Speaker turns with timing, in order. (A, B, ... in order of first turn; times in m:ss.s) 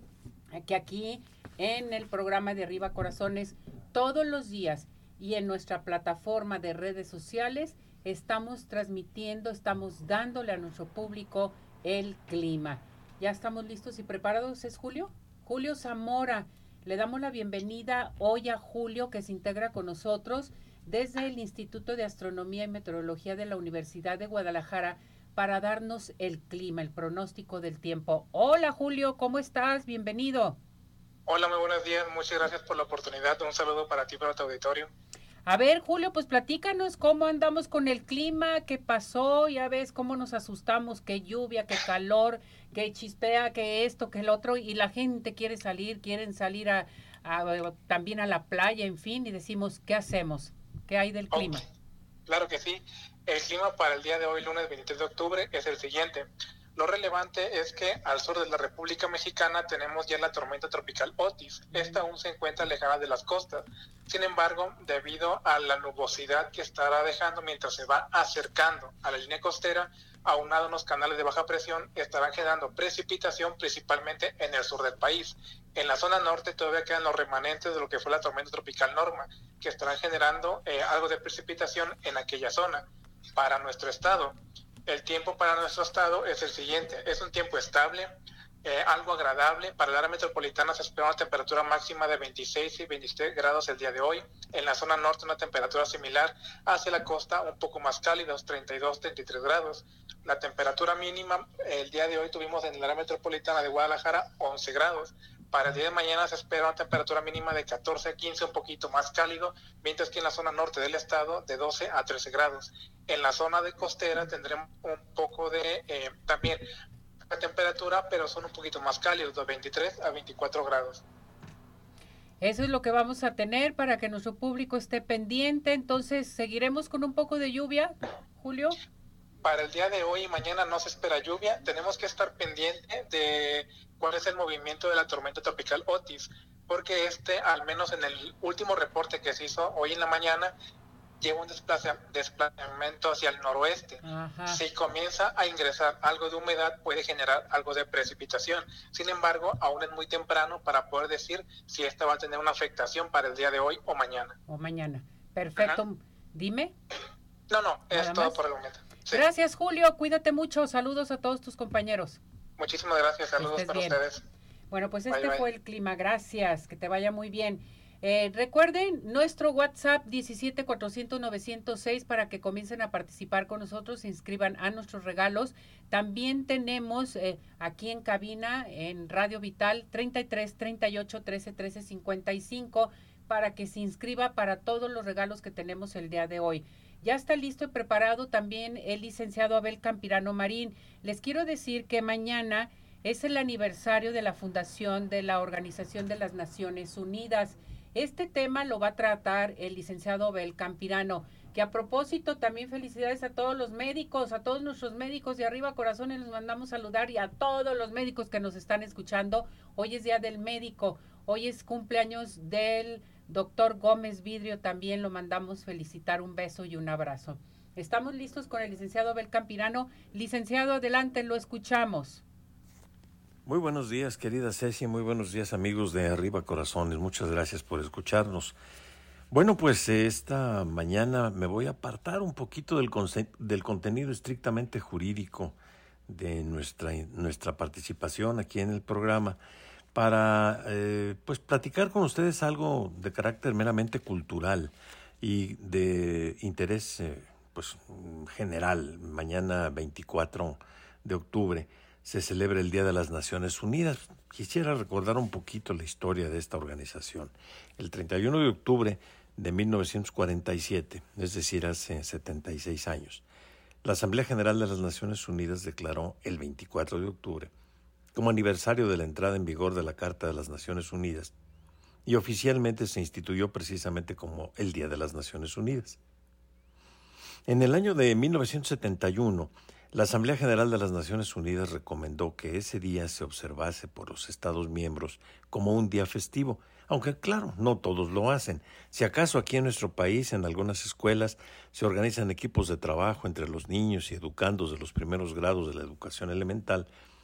0:00.5-0:30.6 A
0:31.3-0:34.9 B
0:35.4-0:51.6 A
0:52.3-1:22.8 B
1:23.4-1:24.3 B
1:24.9-1:28.1 B
1:28.6-1:56.6 B
1:57.3-2:01.0 B
2:02.4-2:08.8 A
2:09.4-2:20.5 B
2:21.2-2:34.4 B
2:24.0-2:24.6 A
2:34.5-2:36.7 A
2:37.5-2:39.2 B
2:37.9-2:38.4 A
2:39.1-2:42.2 A
2:42.6-2:44.2 B
2:43.4-2:44.0 A
2:44.7-3:42.2 A
2:45.1-2:45.4 B
3:43.4-3:48.6 C
3:49.3-3:59.4 C
3:59.9-4:23.2 C
4:23.8-4:27.5 C
4:28.1-4:31.3 C
4:32.0-4:36.0 C
4:37.5-4:56.9 C